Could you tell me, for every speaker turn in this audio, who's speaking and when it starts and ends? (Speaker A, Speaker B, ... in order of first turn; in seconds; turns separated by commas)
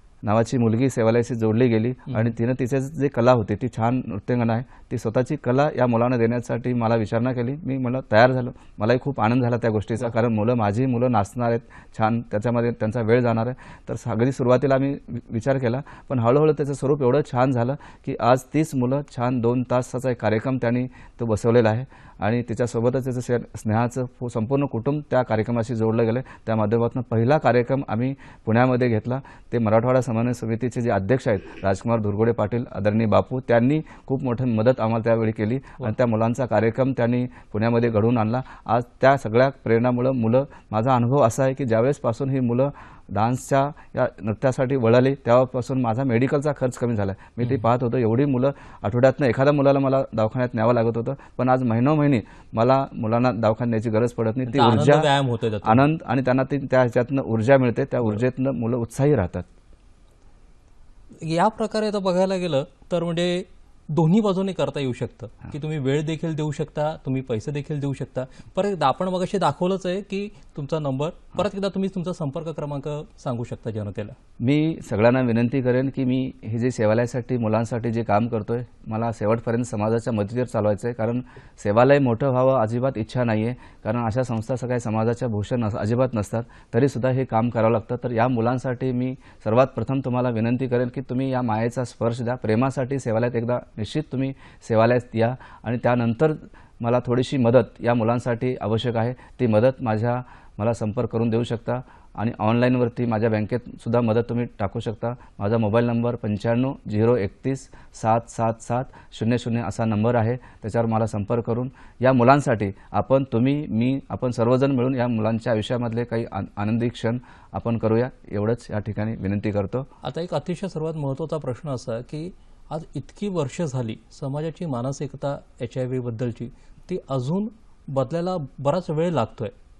Speaker A: 0.2-55.1, Speaker B: 54.5-55.8, Speaker A: 55.6-59.5, Speaker B: 61.2-74.2, Speaker A: 74.4-119.9, Speaker B: 120.0-129.5